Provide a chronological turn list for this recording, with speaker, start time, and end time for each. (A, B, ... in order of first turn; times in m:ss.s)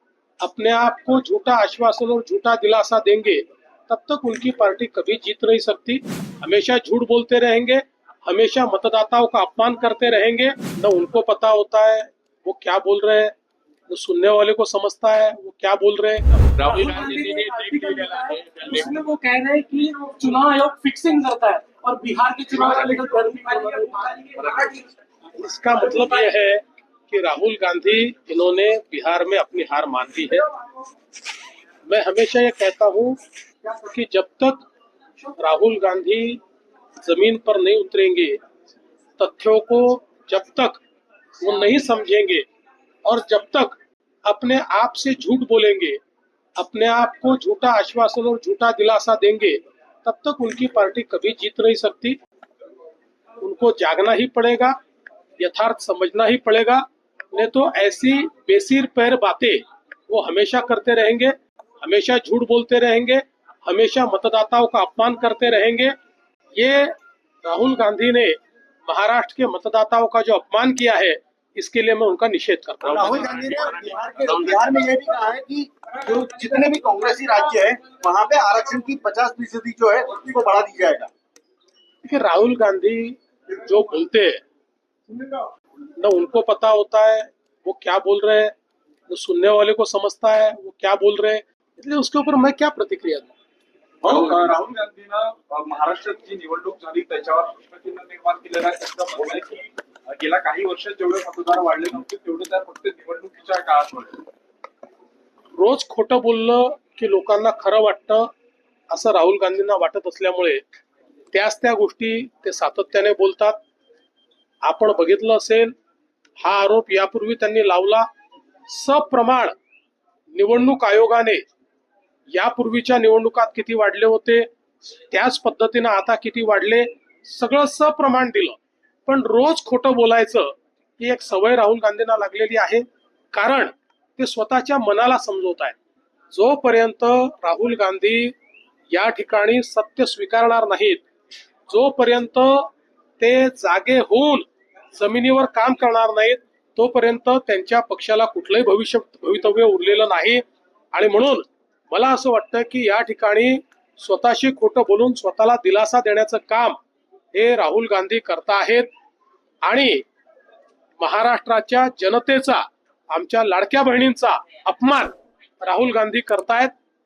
0:00.4-0:13.3 A
0:13.9-0:17.2 A
0:16.6-0:19.1 B
0:22.5-0:23.0 A
0:22.6-0:23.0 B
0:24.2-0:24.6 B
0:25.3-0:30.5 A
0:31.9-0:34.6 A
0:35.3-0:36.4 A
0:37.0-0:38.4 A
0:39.2-0:40.8 A
0:41.4-0:42.4 A
0:43.0-0:46.0 A
0:46.6-0:52.2 A
0:53.4-0:54.8 A
0:55.4-1:05.9 A
1:06.6-1:13.2 A
1:12.9-1:21.1 C
1:22.0-1:24.4 A
1:26.0-1:28.5 A
1:29.1-1:33.3 A
1:34.0-1:44.2 D
1:45.6-1:48.3 A
1:48.9-1:50.6 A
1:51.3-1:53.6 A
1:54.6-1:55.7 A
1:56.4-1:58.1 A
1:58.7-1:59.5 A
2:00.3-2:01.4 A
2:02.3-2:15.8 A
2:16.3-2:18.3 A
2:18.9-2:21.0 A
2:21.7-2:36.8 A
2:37.3-2:38.9 A
2:39.6-2:40.0 A
2:41.0-2:46.7 A